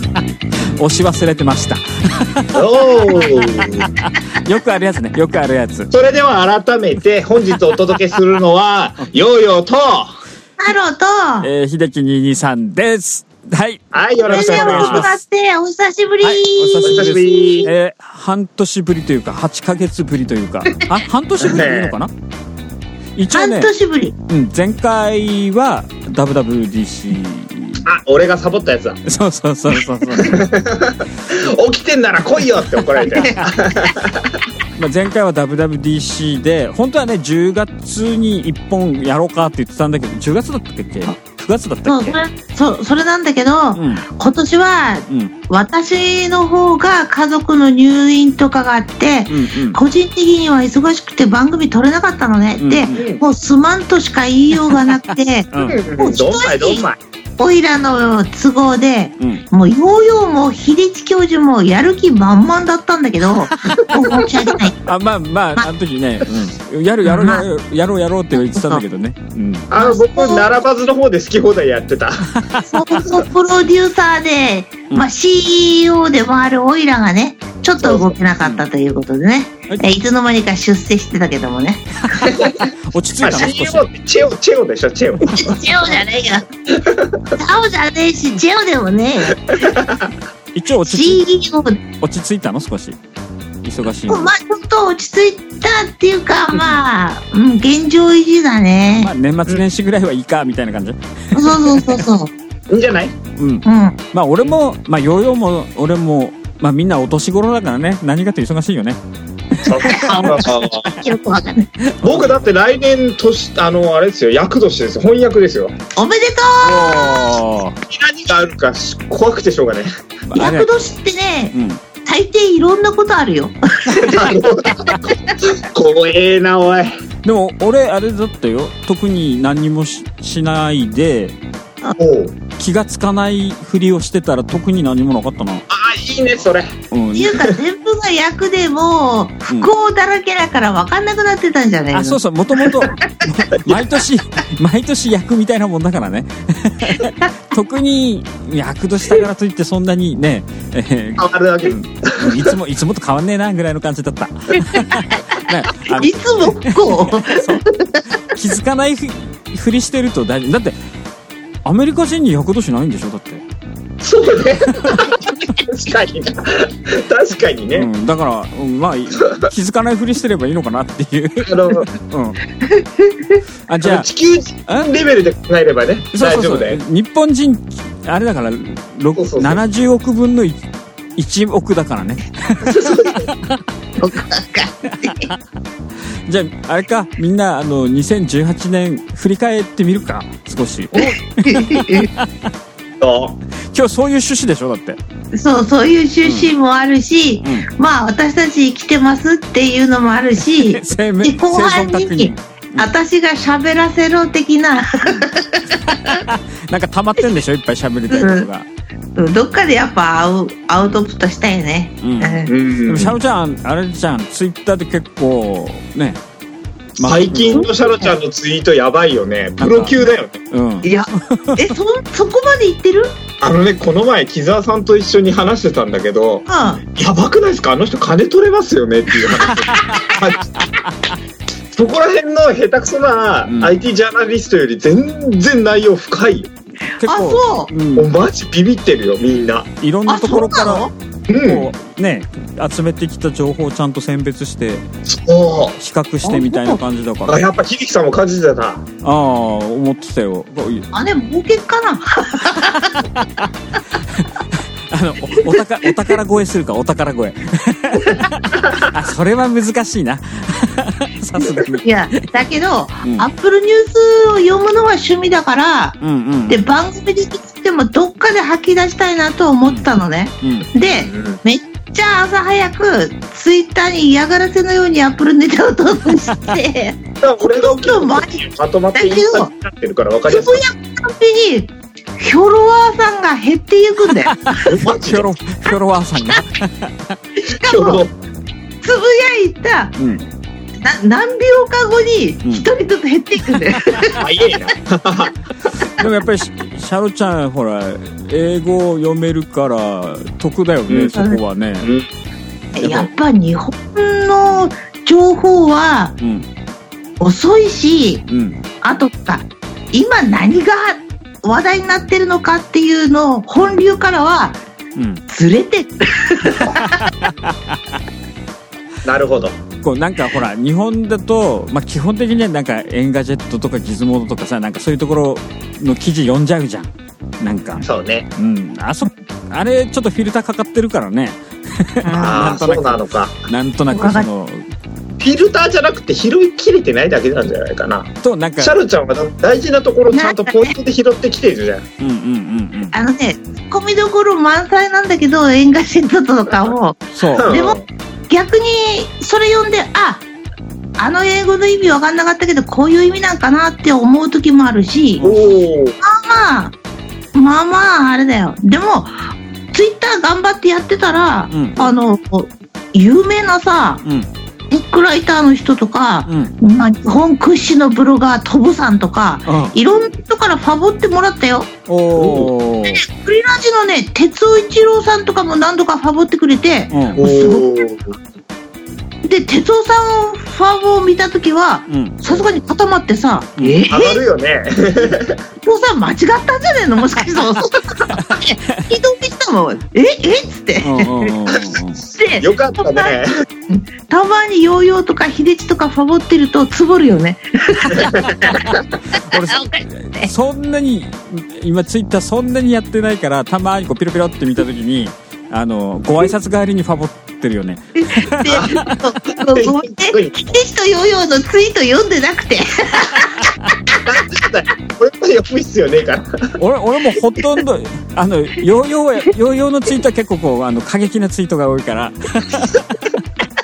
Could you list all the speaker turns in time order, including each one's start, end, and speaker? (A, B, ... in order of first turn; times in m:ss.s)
0:00.8-0:05.9 A
0:02.5-0:03.9 B
0:05.9-0:10.2 B
0:10.6-0:11.5 C
0:11.4-0:15.2 A
0:13.9-0:15.1 B
0:14.3-0:17.7 C
0:16.2-0:22.1 A
0:16.8-0:17.7 B
0:21.4-0:22.0 B
0:23.2-0:23.7 A
0:23.3-0:24.2 C
0:24.3-0:27.8 A
0:27.8-0:29.0 B
0:29.1-0:30.5 A
0:30.1-0:34.4 B
0:33.1-0:33.4 C
0:34.8-0:42.2 A
0:41.9-0:56.9 C
0:43.8-0:44.1 A
0:45.1-0:45.3 A
0:49.3-0:49.8 A
0:52.6-0:53.0 A
0:52.9-0:53.2 B
0:55.5-0:55.8 A
0:55.6-0:57.0 B
0:57.4-1:04.8 C
0:59.2-0:59.4 A
1:04.8-1:09.7 A
1:07.0-1:07.5 C
1:08.4-1:08.8 C
1:09.7-1:12.3 B
1:09.8-1:10.5 C
1:12.3-1:13.1 A
1:12.7-1:22.3 C
1:17.8-1:18.2 B
1:22.1-1:23.9 A
1:22.3-1:22.6 B
1:23.2-1:25.6 B
1:25.3-1:26.5 C
1:26.7-1:27.2 B
1:27.4-1:29.4 C
1:29.5-1:30.1 B
1:30.5-1:31.2 A
1:30.8-1:31.8 C
1:32.0-1:33.0 A
1:33.6-1:34.3 A
1:34.1-1:39.1 C
1:36.5-1:36.8 A
1:39.0-1:42.0 A
1:41.3-1:42.3 C
1:42.7-1:43.2 B
1:43.4-1:49.0 A
1:43.6-1:44.0 C
1:49.6-1:51.7 C
1:49.6-1:50.4 A
1:49.7-1:50.9 B
1:51.9-1:52.4 A
1:52.0-1:55.8 B
1:56.0-1:57.4 C
1:56.6-1:57.8 A
1:57.9-1:59.9 B
2:00.3-2:00.7 A
2:00.4-2:04.4 C
2:01.5-2:01.8 A
2:04.0-2:06.9 B
2:05.0-2:05.4 C
2:07.2-2:11.4 A
2:12.0-2:12.4 B
2:12.6-2:15.7 A
2:15.7-2:16.7 B
2:16.9-2:17.5 A
2:17.1-2:22.9 C
2:21.9-2:37.6 A
2:31.2-2:32.5 B
2:34.6-2:38.0 C
2:38.2-2:40.8 A
2:41.6-2:43.4 A
2:44.0-2:47.9 B
2:44.8-2:45.0 A
2:47.8-2:52.4 A
2:49.2-2:49.5 B
2:51.4-2:51.9 B
2:52.6-2:53.4 C
2:53.7-2:54.1 A
2:53.8-2:56.8 B
2:56.1-3:00.6 A
2:59.2-2:59.6 B
3:01.2-3:03.6 A
3:02.6-3:03.3 B
3:04.0-3:05.3 C
3:05.0-3:05.3 A
3:06.3-3:12.5 A
3:10.9-3:12.1 C
3:13.0-3:13.4 B
3:13.7-3:15.0 A
3:15.3-3:26.2 C
3:16.2-3:16.5 A
3:20.7-3:22.9 A
3:25.9-3:28.7 A
3:28.1-3:28.5 C
3:29.2-3:32.5 C
3:32.0-3:36.2 A
3:32.5-3:33.2 B
3:37.0-3:37.7 A
3:37.0-3:40.4 B
3:37.5-3:38.1 C
3:39.6-3:41.7 A
3:40.8-3:43.2 C
3:43.4-3:50.5 B
3:46.5-3:46.8 C
3:49.5-3:50.1 C
3:49.9-3:50.6 A
3:51.7-3:56.5 B
3:53.5-3:53.7 A
3:57.0-3:58.1 A
3:57.0-3:57.7 C
3:58.0-3:59.7 B
3:59.8-4:00.9 A
4:00.1-4:00.9 C
4:01.3-4:01.7 B
4:01.4-4:04.9 A
4:05.1-4:05.8 B
4:05.8-4:07.4 A
4:06.2-4:06.8 C
4:07.3-4:08.8 B
4:09.0-4:10.9 A
4:10.9-4:13.0 C
4:13.0-4:22.2 A
4:15.4-4:16.2 C
4:18.0-4:18.3 C
4:21.5-4:26.0 C
4:26.0-4:26.6 A
4:26.5-4:37.0 C
4:30.4-4:30.7 A
4:30.8-4:31.4 B
4:37.2-4:40.6 B
4:37.6-4:39.5 C
4:40.3-4:44.7 C
4:44.5-4:47.2 A
4:44.7-4:45.3 B
4:47.4-4:48.0 C
4:47.6-4:48.1 B
4:48.8-4:50.0 C
4:50.0-4:50.2 A
4:50.8-4:54.2 C
4:54.2-4:55.4 B
4:56.0-5:01.9 A
5:00.9-5:01.2 B
5:01.1-5:01.4 C
5:01.8-5:02.1 B
5:02.8-5:06.2 C
5:02.8-5:03.1 A
5:06.2-5:06.5 A
5:07.2-5:08.2 C
5:08.3-5:08.6 A
5:08.8-5:14.6 C
5:15.0-5:15.2 A
5:15.3-5:17.1 C
5:16.6-5:17.8 A
5:19.0-5:19.6 B
5:19.8-5:27.8 A
5:27.8-5:28.3 B
5:28.4-5:34.6 A
5:32.0-5:32.6 C
5:32.2-5:33.4 B
5:33.9-5:34.3 C
5:35.2-5:41.9 B
5:38.2-5:38.8 A
5:40.1-5:40.8 C
5:42.0-5:43.0 A
5:42.9-5:47.8 C
5:47.2-5:47.5 A
5:47.3-5:47.8 B
5:48.3-5:50.2 C
5:51.0-5:55.3 C
5:55.2-5:55.6 A
5:55.2-5:56.0 B
5:56.0-5:56.8 C
5:57.3-6:04.0 C
6:01.5-6:01.9 A
6:04.0-6:04.3 A
6:04.7-6:11.7 C
6:06.3-6:06.6 A
6:09.5-6:09.8 A
6:11.9-6:13.0 A
6:12.2-6:12.5 B
6:12.9-6:17.8 C
6:16.9-6:17.2 A
6:17.1-6:18.2 B
6:19.2-6:24.2 C
6:21.9-6:22.2 A
6:23.9-6:25.4 B
6:25.6-6:31.4 C
6:28.1-6:28.9 A
6:30.8-6:32.0 A
6:32.2-6:33.2 C
6:32.4-6:33.3 B
6:33.7-6:40.3 C
6:37.9-6:38.6 B
6:38.5-6:49.0 A
6:48.0-6:54.0 C
6:48.5-6:48.8 B
6:49.5-6:50.3 B
6:54.0-6:56.5 B
6:56.6-7:03.2 A